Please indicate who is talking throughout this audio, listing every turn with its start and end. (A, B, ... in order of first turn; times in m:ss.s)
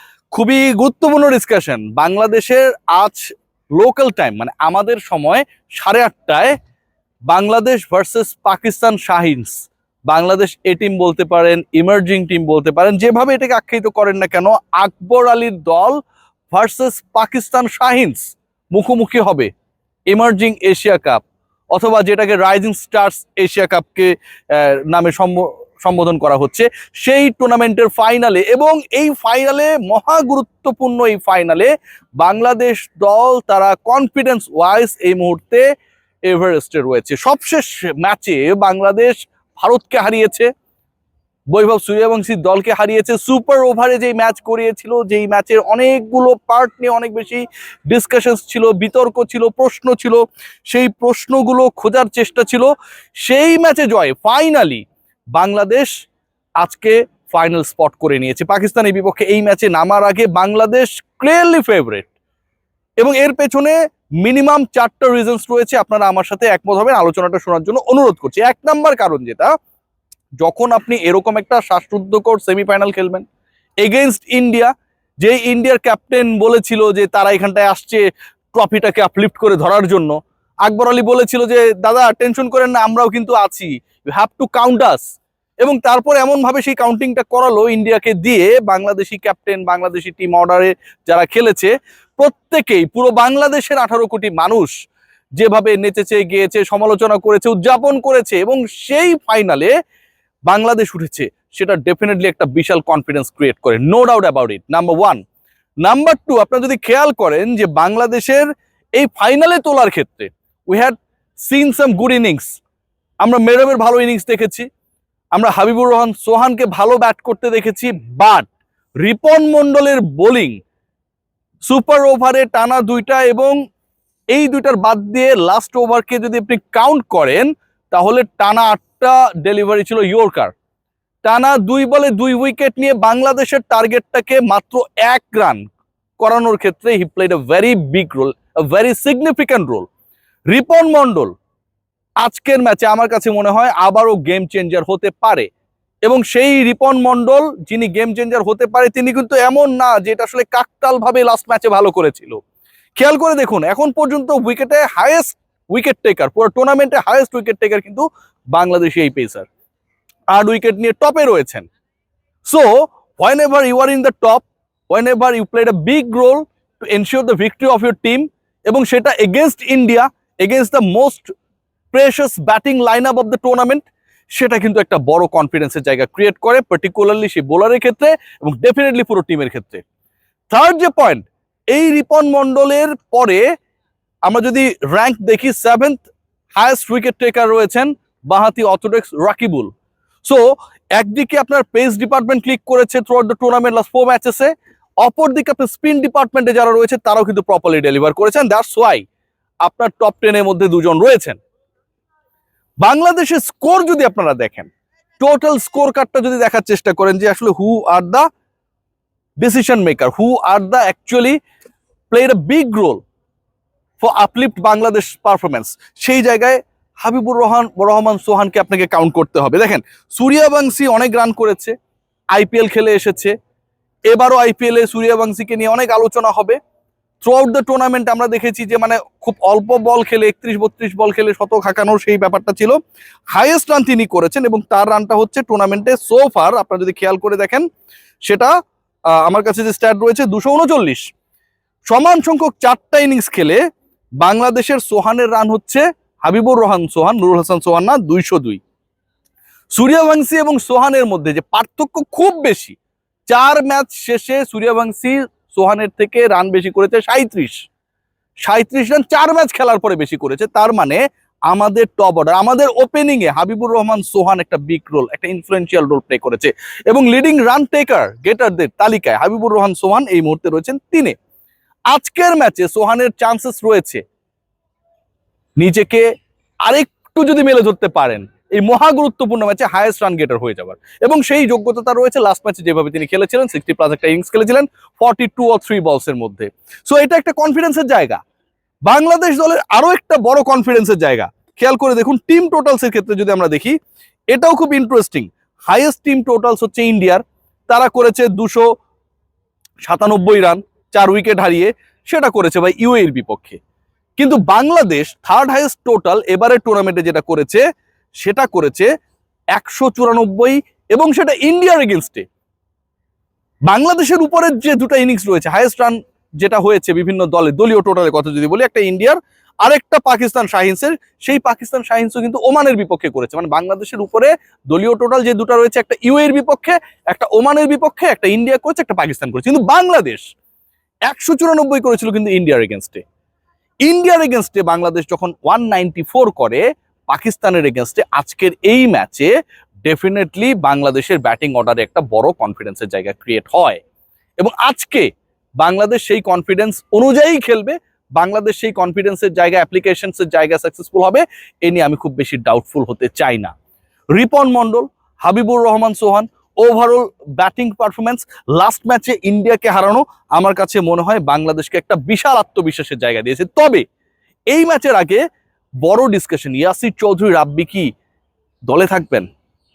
0:00.3-0:06.5 A
0:07.3-0:16.0 A
0:16.5-0:19.5 A
0:20.1-0:21.2 A
0:21.7-0:35.6 A
0:36.3-0:40.5 A
0:41.5-0:52.7 A
0:53.2-0:54.8 A
0:55.3-0:55.9 A
0:56.6-1:02.1 A
1:03.0-1:09.5 A
1:10.4-1:13.2 A
1:13.8-1:25.0 A
1:25.6-1:34.7 A
1:35.4-1:39.7 A
1:40.5-1:45.2 A
1:45.8-1:52.6 A
1:53.2-1:54.6 A
1:55.3-1:58.5 A
1:59.0-2:00.6 A
2:01.6-2:03.5 A
2:04.3-2:10.5 A
2:11.2-2:15.6 A
2:16.2-2:19.9 A
2:20.5-2:21.3 A
2:22.2-2:25.5 A
2:26.0-2:32.4 A
2:33.0-2:39.5 A
2:40.3-2:41.6 A
2:42.4-2:51.3 A
2:51.9-2:59.8 A
3:00.5-3:03.4 A
3:04.2-3:09.7 A
3:11.0-3:19.0 A
3:19.6-3:21.4 A
3:22.8-3:28.2 A
3:29.4-3:31.4 A
3:32.1-3:33.0 A
3:34.0-3:41.7 A
3:42.3-3:43.3 A
3:44.1-3:46.6 A
3:47.2-3:52.8 A
3:53.3-3:57.6 A
3:59.2-4:01.0 A
4:01.9-4:03.6 A
4:04.2-4:08.6 A
4:09.7-4:12.8 A
4:13.3-4:17.5 A
4:18.4-4:31.1 A
4:31.9-4:34.0 A
4:35.6-4:36.0 A
4:36.6-4:48.2 A
4:48.8-4:53.8 A
4:54.3-4:58.6 A
4:59.8-5:03.6 A
5:04.2-5:07.6 A
5:08.2-5:08.9 A
5:09.5-5:12.2 A
5:13.7-5:30.2 A
5:31.0-5:33.0 A
5:33.8-5:39.3 A
5:39.8-5:43.8 A
5:44.4-5:45.1 A
5:45.6-5:53.5 A
5:54.1-6:03.8 A
6:04.5-6:05.2 A
6:05.8-6:07.9 A
6:08.6-6:09.2 A